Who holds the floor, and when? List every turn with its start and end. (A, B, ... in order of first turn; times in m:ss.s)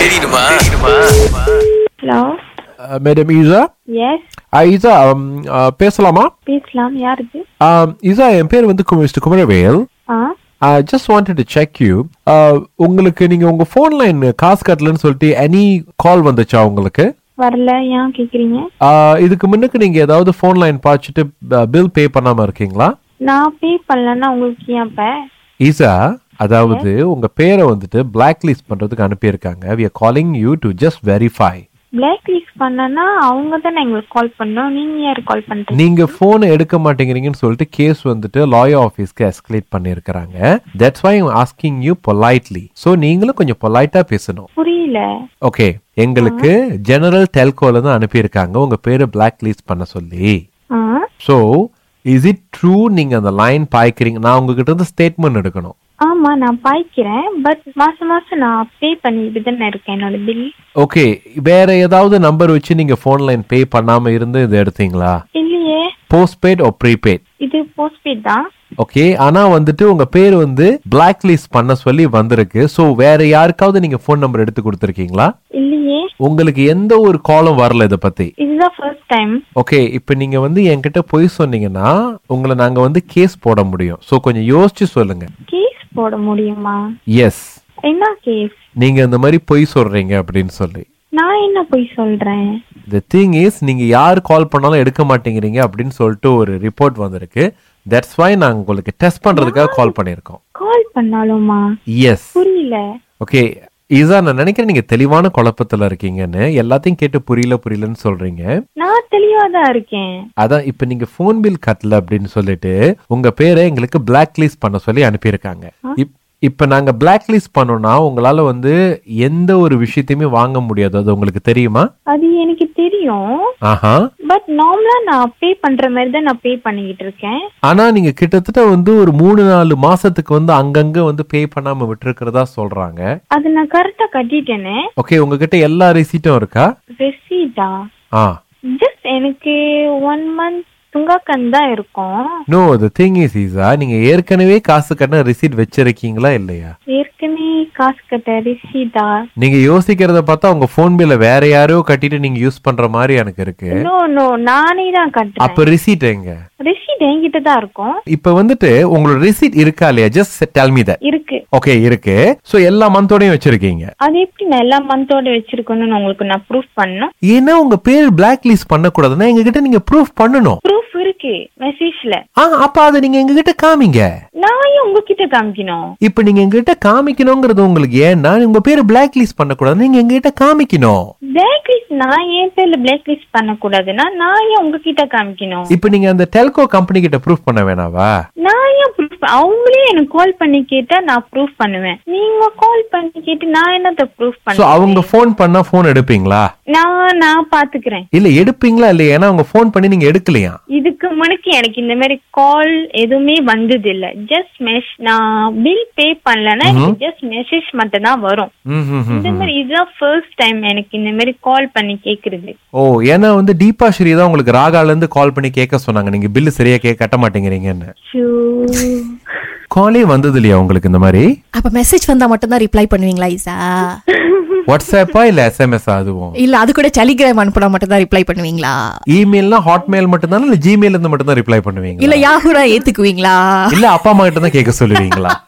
0:02.9-0:03.6 A
0:04.0-0:04.2 B
0:04.6-0:06.3 A
0:06.5-0:07.4 B
0:07.6-0:09.8 A
0:10.6-0:17.0 A
0:17.4-0:18.6 B
0:18.8-0:22.9 A
0:23.3-0:25.0 B
0:25.6-0:31.6 A
0:32.0-0:36.0 B
0:35.8-0:44.4 A
0:44.6-0:45.0 B
0:45.5-0:50.3 A
0:52.1-0:55.7 A
0:56.1-1:00.4 B
1:00.8-1:05.1 A
1:05.4-1:05.8 B
1:06.1-1:07.2 A
1:07.4-1:08.4 B
1:08.8-1:15.3 A
1:15.6-1:16.0 B
1:16.2-1:18.3 A
1:18.4-1:19.4 B
1:19.6-1:25.3 A
1:25.5-1:26.8 B
1:27.1-1:27.5 A
1:27.9-1:28.6 B
1:28.8-1:30.8 A
1:31.2-1:32.4 B
1:32.9-1:40.4 A
1:39.4-1:39.9 B
1:40.6-1:41.6 B
1:42.0-1:42.4 A
1:42.3-1:42.8 B
1:44.0-1:48.5 A
1:48.8-1:50.1 B
1:50.4-2:01.8 A
2:02.1-2:03.2 B
2:04.3-2:07.4 B
2:07.7-2:13.0 A
2:13.4-2:14.8 B
2:15.0-2:16.6 A
2:17.0-2:17.7 B
2:18.8-2:19.5 B
2:20.0-2:22.1 B
2:22.5-2:26.7 A
2:26.9-2:29.1 B
2:29.4-2:33.8 A
2:33.7-2:35.6 B
2:35.4-2:36.3 A
2:36.6-2:37.9 B
2:38.1-2:41.0 A
2:41.1-2:41.4 B
2:41.5-2:43.9 A
2:44.0-2:47.1 B
2:47.3-2:50.6 A
2:50.6-2:52.2 B
2:52.4-2:54.0 A
2:54.4-2:55.8 B
2:56.0-3:01.0 A
3:01.4-3:05.7 B
3:05.7-3:08.1 A
3:08.4-3:15.1 B
3:14.5-3:16.4 A
3:16.7-3:18.0 B
3:18.1-3:20.6 A
3:20.8-3:28.5 B
3:26.6-3:27.0 A
3:28.7-3:29.5 A
3:29.1-3:32.5 B
3:32.8-3:37.9 A
3:38.1-3:39.1 B
3:39.7-3:41.2 A
3:41.6-3:43.8 C
3:44.1-3:44.6 B
3:44.7-3:46.4 A
3:46.4-3:48.8 C
3:49.1-3:52.3 A
3:52.0-3:53.6 C
3:53.7-3:55.4 A